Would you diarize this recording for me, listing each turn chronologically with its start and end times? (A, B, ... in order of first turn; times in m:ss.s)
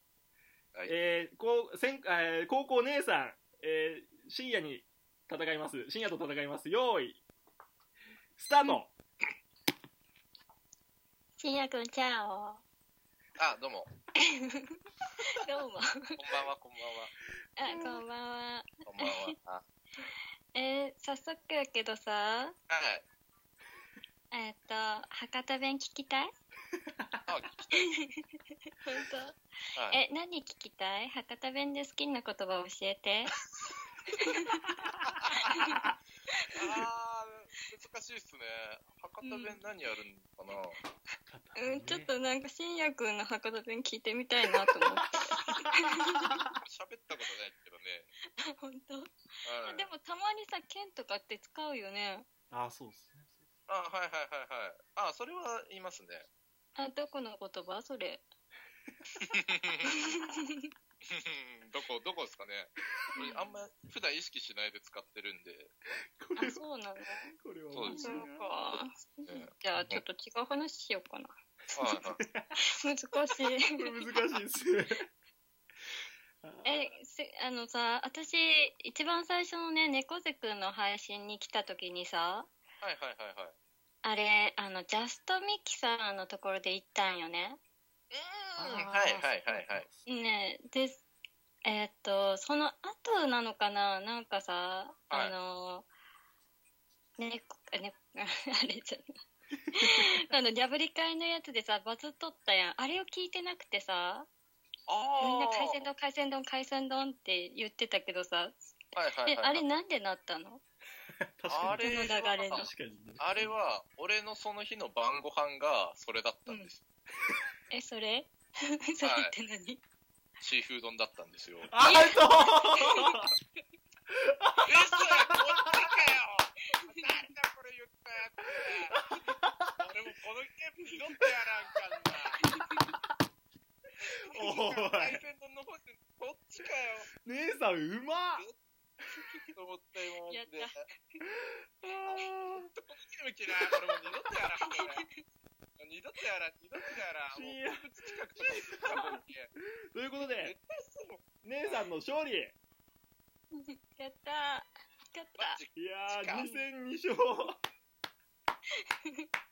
0:00.9-0:07.2 A
0:08.4-0:09.0 A
0:11.4-0:12.6 B
0:13.4-0:13.9 C
0:15.3-0:16.2 B
0:16.2-0:17.1 C
0:17.6-0:19.3 B
0:17.7-0:18.0 A
0:18.9-0:19.6 C
0:20.1-0:22.6 B
0:22.7-0:23.0 C
0:24.3-0:26.3 B
0:27.0-0:27.2 A
0:27.3-0:27.9 C
0:27.7-0:28.2 B
0:28.8-0:29.4 B
0:29.8-0:30.0 C
0:29.9-0:33.4 B
0:34.2-0:34.7 B
0:34.8-0:35.9 A
0:35.4-0:35.8 B
0:36.5-0:40.8 C
0:39.2-0:39.5 B
0:41.3-0:42.1 A
0:41.6-0:46.4 B
0:45.0-0:45.7 A
0:46.6-0:48.1 C
0:48.5-0:49.1 B
0:49.4-0:49.9 C
0:49.6-0:52.3 B
0:52.5-0:53.4 A
0:53.7-0:56.3 C
0:56.8-0:58.2 B
0:59.3-0:59.9 C
0:59.8-1:00.7 B
1:01.1-1:05.7 C
1:03.2-1:03.4 B
1:06.2-1:06.6 A
1:06.4-1:07.3 B
1:07.4-1:08.5 A
1:07.7-1:08.2 C
1:07.9-1:11.3 B
1:09.3-1:10.0 C
1:11.8-1:12.2 C
1:11.9-1:12.5 A
1:12.6-1:13.7 B
1:13.7-1:15.0 A
1:16.4-1:16.9 A
1:16.6-1:22.5 B
1:22.8-1:23.5 C
1:24.0-1:27.6 B
1:28.1-1:29.9 C
1:28.6-1:30.0 A
1:30.1-1:31.0 B
1:31.6-1:35.9 B
1:37.2-1:39.1 B
1:39.8-1:44.3 B
1:44.9-1:45.9 C
1:45.2-1:48.6 B
1:49.0-1:49.7 C
1:49.3-1:50.6 B
1:51.2-1:53.5 A
1:51.5-1:52.7 C
1:51.8-1:52.7 B
1:53.2-1:56.8 C
1:57.7-1:58.3 B
1:58.9-1:59.8 B
1:59.0-1:59.3 C
2:00.4-2:01.7 C
2:01.7-2:03.3 A
2:01.8-2:03.2 B
2:04.1-2:05.3 A
2:04.7-2:09.0 C
2:08.9-2:09.7 A
2:09.8-2:12.4 C
2:12.4-2:12.9 B
2:14.0-2:17.1 C
2:14.3-2:15.2 A
2:17.2-2:18.4 A
2:19.5-2:20.8 C
2:20.3-2:21.2 B
2:21.8-2:22.7 A
2:22.1-2:25.0 C
2:24.6-2:25.2 B
2:25.8-2:29.5 C
2:27.3-2:27.8 A
2:28.4-2:29.2 A
2:29.9-2:30.5 A
2:30.4-2:31.9 C
2:31.4-2:32.6 A
2:33.5-2:35.6 B
2:35.4-2:36.5 C
2:35.8-2:37.6 A
2:36.3-2:36.6 B